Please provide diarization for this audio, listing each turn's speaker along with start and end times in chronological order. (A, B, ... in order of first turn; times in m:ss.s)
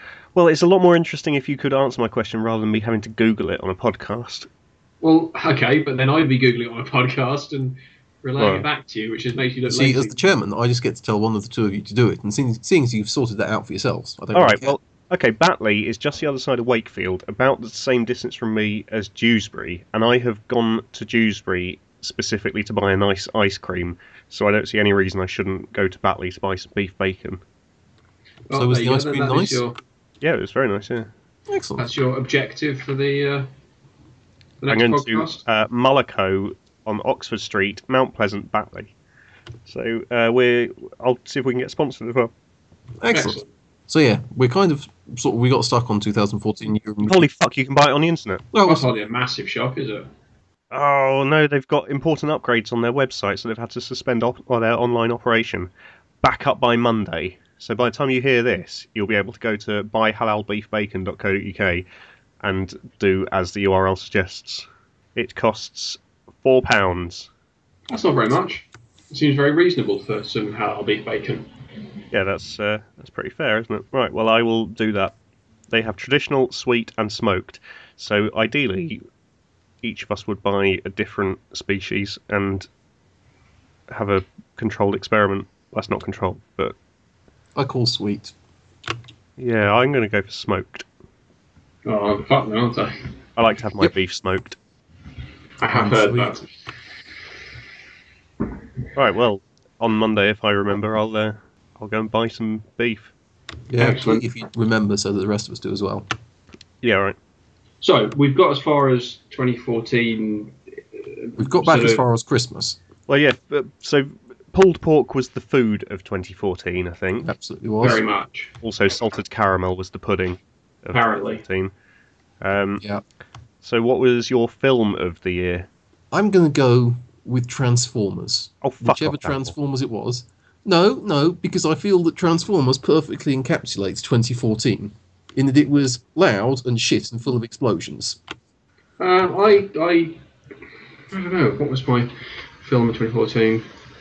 0:00.4-0:04.5 A
0:05.0-0:10.2 B
0:08.4-0:08.6 A
0:09.7-0:14.8 C
0:14.3-0:27.4 A
0:28.5-0:29.8 B
0:28.5-0:29.6 C
0:30.2-0:31.1 A
0:31.5-0:31.8 C
0:31.8-0:33.5 B
0:34.6-0:35.4 B
0:34.7-0:38.9 A
0:39.7-0:42.3 A
0:43.0-0:47.2 C
0:43.1-0:43.5 B
0:47.1-0:48.5 A
0:48.5-0:48.9 C
0:48.6-0:50.1 B
0:50.7-0:55.7 A
0:56.2-1:01.9 A
1:02.4-1:07.3 A
1:07.9-1:11.5 B
1:12.1-1:15.2 A
1:15.7-1:19.0 A
1:19.8-1:22.7 A
1:23.9-1:26.8 A
1:27.6-1:28.3 C
1:29.4-1:30.9 A
1:31.9-1:33.0 B
1:33.4-1:34.6 A
1:35.6-1:36.5 B
1:35.7-1:36.4 C
1:39.0-1:43.1 A
1:43.7-1:46.1 C
1:43.8-1:44.2 B
1:46.8-1:47.2 A
1:47.8-1:52.0 B
1:51.4-1:52.8 C
1:53.1-1:57.3 A
1:57.2-1:58.0 C
1:57.8-1:58.5 B
1:58.6-2:01.7 A
2:00.9-2:01.4 B
2:02.4-2:02.8 A
2:03.6-2:05.7 A
2:06.1-2:18.2 C
2:08.6-2:09.5 A
2:19.0-2:20.2 B
2:21.1-2:23.7 B